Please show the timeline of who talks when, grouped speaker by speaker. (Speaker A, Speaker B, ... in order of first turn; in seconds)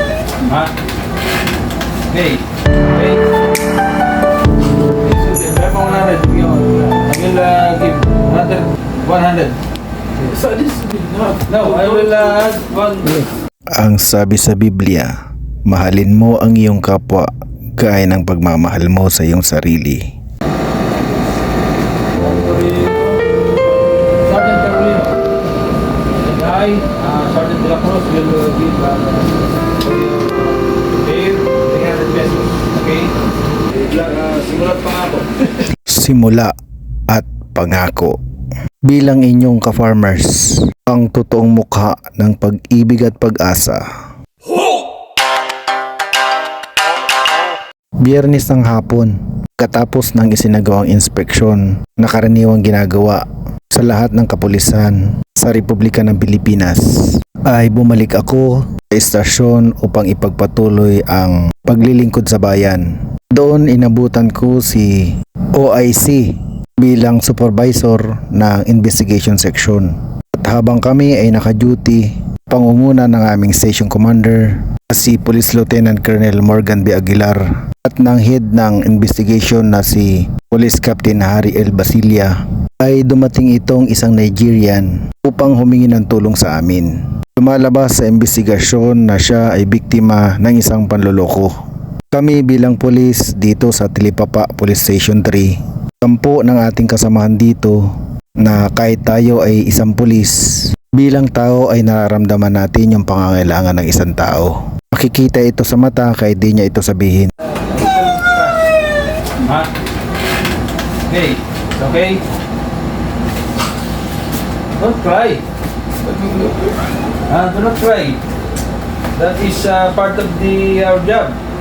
Speaker A: 0.4-0.7, 2.1-3.2, 5.2-9.6, 11.5-13.2, 22.2-23.2, 24.2-25.2, 26.2-33.1, 33.8-35.4, 107.7-108.6, 109.4-109.7, 111.1-112.2, 114.8-115.4, 117.3-118.2, 119.2-121.4
Speaker B: 10.3-12.1, 116.1-116.6
Speaker C: 13.8-15.1, 15.7-20.1, 35.9-36.5, 37.1-38.2, 38.9-43.8, 48.0-91.5, 92.1-107.3